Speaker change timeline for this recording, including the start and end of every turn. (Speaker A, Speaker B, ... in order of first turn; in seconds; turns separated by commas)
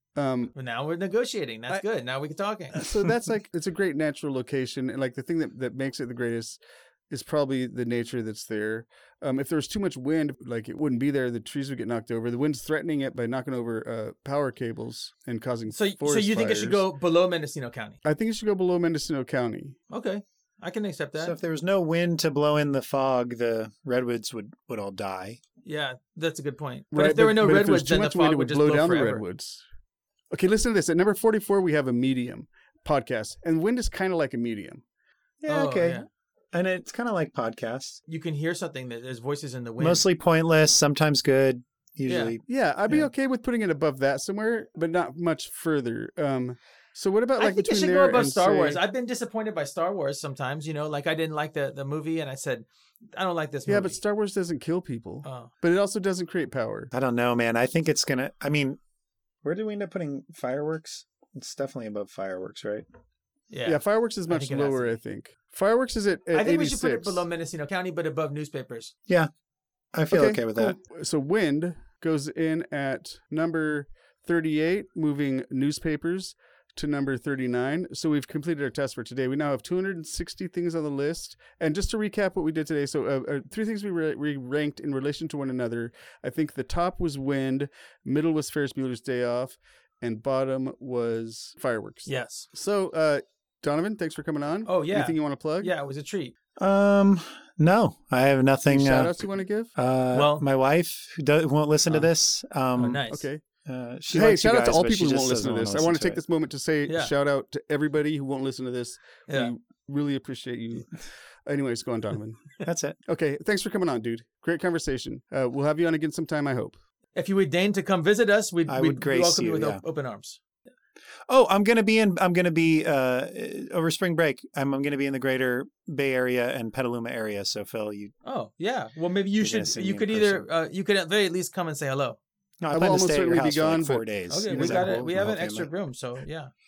Speaker A: 0.2-0.5, Speaker B: 0.6-2.9, Speaker A: 2.7-16.9, Speaker B: 15.7-18.0, Speaker A: 18.0-19.8, Speaker B: 19.9-21.4, Speaker C: 21.2-25.4, Speaker B: 25.6-29.2, Speaker A: 26.9-29.6, Speaker A: 30.3-34.8, Speaker C: 35.4-38.0, Speaker B: 35.5-36.1, Speaker B: 38.1-40.0, Speaker C: 39.8-43.1, Speaker B: 42.1-42.4, Speaker A: 42.5-48.8, Speaker B: 47.4-54.0, Speaker A: 53.7-56.9, Speaker B: 55.2-55.5, Speaker C: 56.9-58.8, Speaker C: 59.4-62.9, Speaker B: 63.5-65.0, Speaker A: 63.6-67.2, Speaker B: 66.3-68.9, Speaker C: 69.9-70.8, Speaker A: 70.1-95.7, Speaker B: 92.1-92.5, Speaker B: 94.7-96.3, Speaker C: 96.6-99.2, Speaker A: 98.7-99.7, Speaker C: 99.8-103.0, Speaker B: 100.1-100.4, Speaker B: 102.8-103.3, Speaker A: 103.1-103.4, Speaker C: 103.7-106.2, Speaker A: 104.1-110.9, Speaker B: 106.9-107.1, Speaker A: 111.5-112.4, Speaker C: 112.6-113.0, Speaker A: 113.0-116.8, Speaker B: 117.2-120.4, Speaker C: 118.7-119.8, Speaker C: 121.3-128.1, Speaker B: 128.2-132.2, Speaker C: 129.4-130.5, Speaker C: 132.6-135.7, Speaker A: 132.7-135.1, Speaker B: 134.3-136.5